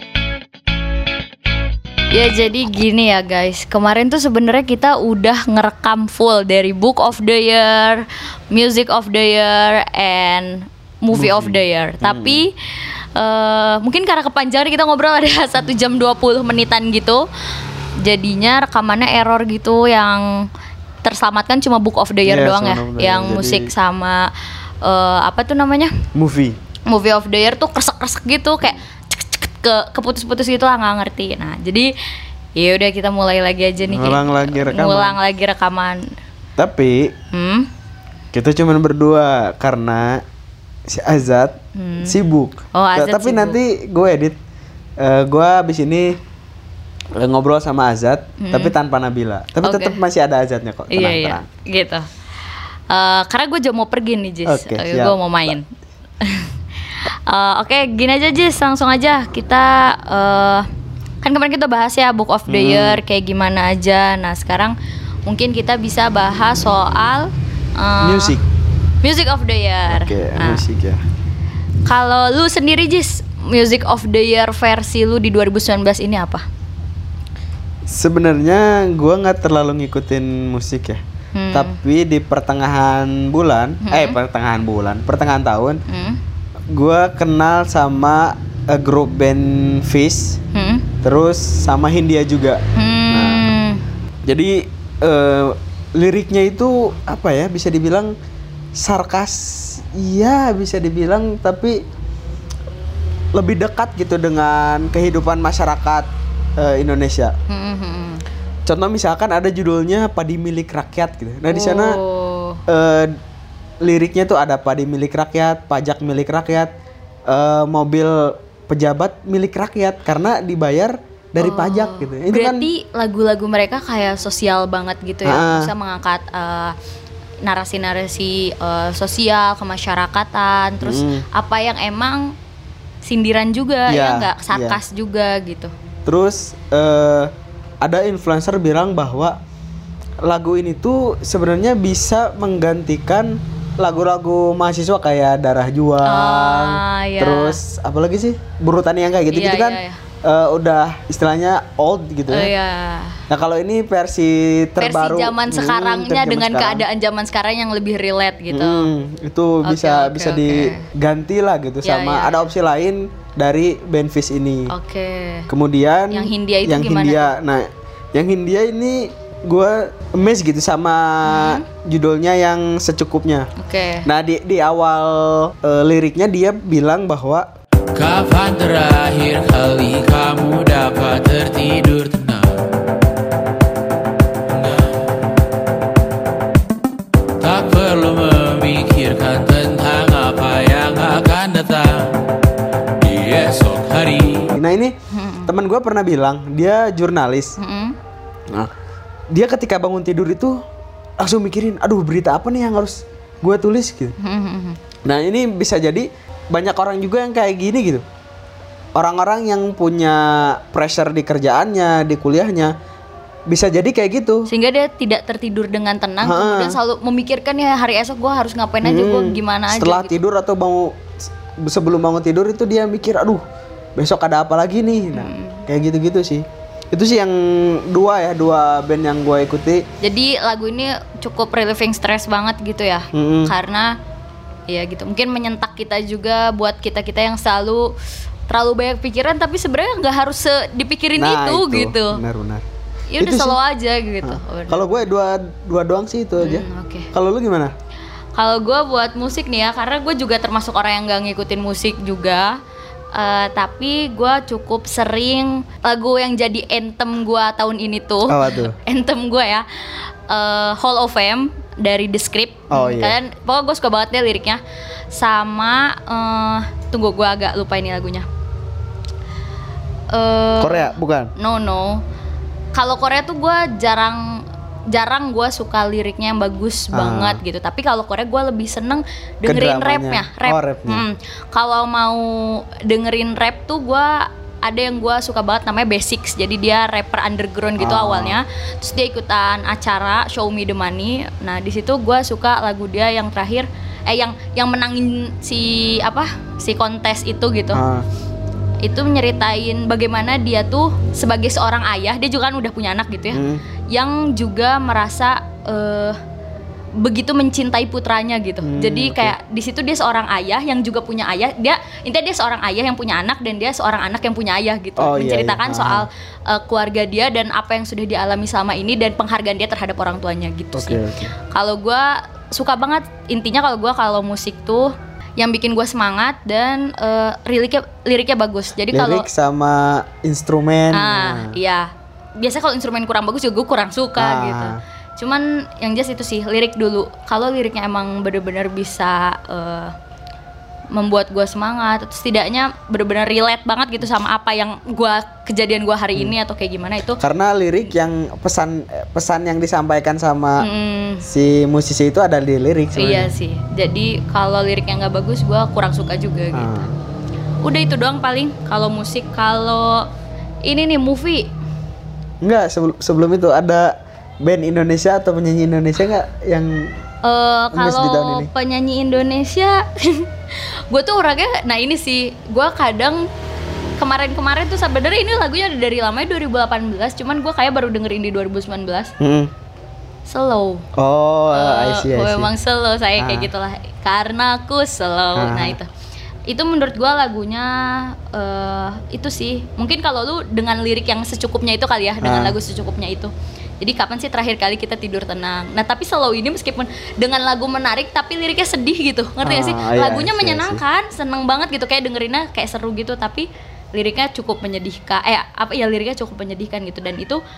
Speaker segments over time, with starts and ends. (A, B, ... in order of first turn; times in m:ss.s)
0:02.1-0:12.5 A
0:11.1-0:12.4 B
0:13.2-0:17.3 A
0:18.0-0:20.5 A
0:21.0-0:24.3 A
0:22.2-0:23.7 B
0:24.8-0:25.9 A
0:26.2-0:26.6 B
0:26.9-0:31.9 A
0:32.6-0:36.1 A
0:33.8-0:35.2 B
0:36.6-0:37.1 B
0:37.3-0:37.7 A
0:38.3-0:40.2 B
0:40.9-0:44.4 B
0:41.8-0:42.2 A
0:42.7-0:43.6 A
0:45.0-0:46.2 B
0:47.2-0:51.5 B
0:48.4-0:48.7 A
0:49.6-0:50.0 A
0:50.9-0:52.1 A
0:52.9-0:55.7 A
0:54.5-0:55.5 B
0:56.2-0:56.5 A
0:57.3-1:00.7 A
1:01.2-1:04.8 A
1:02.5-1:03.0 B
1:05.3-1:08.4 A
1:08.0-1:08.5 B
1:09.0-1:10.6 A
1:09.9-1:11.0 B
1:11.9-1:16.5 A
1:17.9-1:25.8 B
1:21.4-1:21.8 A
1:23.8-1:24.2 A
1:25.9-1:26.2 A
1:26.7-1:30.4 B
1:30.6-1:30.9 A
1:31.0-1:32.6 B
1:32.8-1:33.8 A
1:33.1-1:33.5 B
1:34.2-1:38.1 B
1:38.8-1:41.8 B
1:43.3-1:47.3 B
1:47.5-1:48.2 A
1:48.7-1:52.0 B
1:51.5-1:52.6 A
1:52.7-1:53.2 B
1:53.8-1:56.7 B
1:57.3-2:02.7 B
2:01.4-2:06.7 A
2:05.2-2:05.7 B
2:07.4-2:12.3 A
2:10.8-2:11.3 B
2:13.0-2:15.7 A
2:13.9-2:14.8 B
2:16.1-2:19.4 B
2:20.2-2:32.5 B
2:26.0-2:27.6 A
2:29.3-2:30.0 A
2:32.3-2:33.2 A
2:33.3-2:36.8 B
2:34.8-2:38.9 A
2:38.5-2:44.7 B
2:39.6-2:40.9 A
2:41.8-2:42.4 A
2:44.7-2:45.5 A
2:45.5-2:53.5 B
2:46.1-2:47.3 A
2:51.2-2:51.6 A
2:53.6-2:54.1 A
2:54.1-2:57.5 B
2:58.0-3:02.6 C
3:04.5-3:05.0 C
3:07.4-3:12.2 C
3:13.0-3:14.5 C
3:14.6-3:14.9 B
3:15.1-3:15.5 A
3:15.5-3:17.6 B
3:17.6-3:18.0 A
3:19.3-3:20.6 B
3:21.2-3:24.1 B
3:24.2-3:24.8 A
3:25.0-3:28.0 B
3:29.0-3:32.7 B
3:33.5-3:34.5 B
3:34.5-3:40.2 A
3:36.2-3:36.8 B
3:38.8-3:43.4 B
3:44.0-3:49.8 B
3:45.1-3:45.7 A
3:50.0-3:53.9 A
3:53.1-3:53.5 B
3:54.7-3:57.9 A
3:58.5-4:02.2 A
4:01.2-4:02.6 B
4:03.1-4:04.8 A
4:03.2-4:03.6 B
4:04.2-4:07.7 B
4:06.4-4:07.1 A
4:08.4-4:12.6 A
4:13.1-4:19.7 A
4:18.3-4:18.8 B
4:20.3-4:24.6 A
4:22.7-4:23.2 B
4:25.1-4:28.3 A
4:30.1-4:32.0 A
4:30.6-4:31.3 B
4:32.7-4:57.8 A
4:36.9-4:37.4 B
4:39.4-4:41.0 B
4:47.8-4:48.4 B
4:57.7-4:58.0 B
4:58.8-5:06.2 A
5:03.3-5:03.6 B
5:07.0-5:29.3 A
5:08.6-5:09.4 B
5:15.0-5:16.1 B
5:20.8-5:21.4 B
5:28.9-5:31.6 B
5:30.9-5:39.9 A
5:34.2-5:34.8 B
5:40.9-5:47.2 A
5:47.2-5:50.7 B
5:50.6-5:51.2 A
5:51.2-5:53.3 B
5:53.0-5:56.7 A
5:56.5-5:57.0 B
5:57.6-6:00.1 A
6:00.7-6:01.5 A
6:02.4-6:06.9 B
6:07.2-6:10.3 A
6:07.7-6:08.5 B
6:10.9-6:13.2 A
6:14.0-6:19.1 A
6:19.2-6:19.5 B
6:20.3-6:20.8 A
6:21.0-6:22.5 B
6:21.5-6:25.9 A
6:23.2-6:23.5 B
6:25.4-6:25.8 B
6:26.5-6:47.4 A
6:32.2-6:32.6 B
6:39.4-6:40.8 B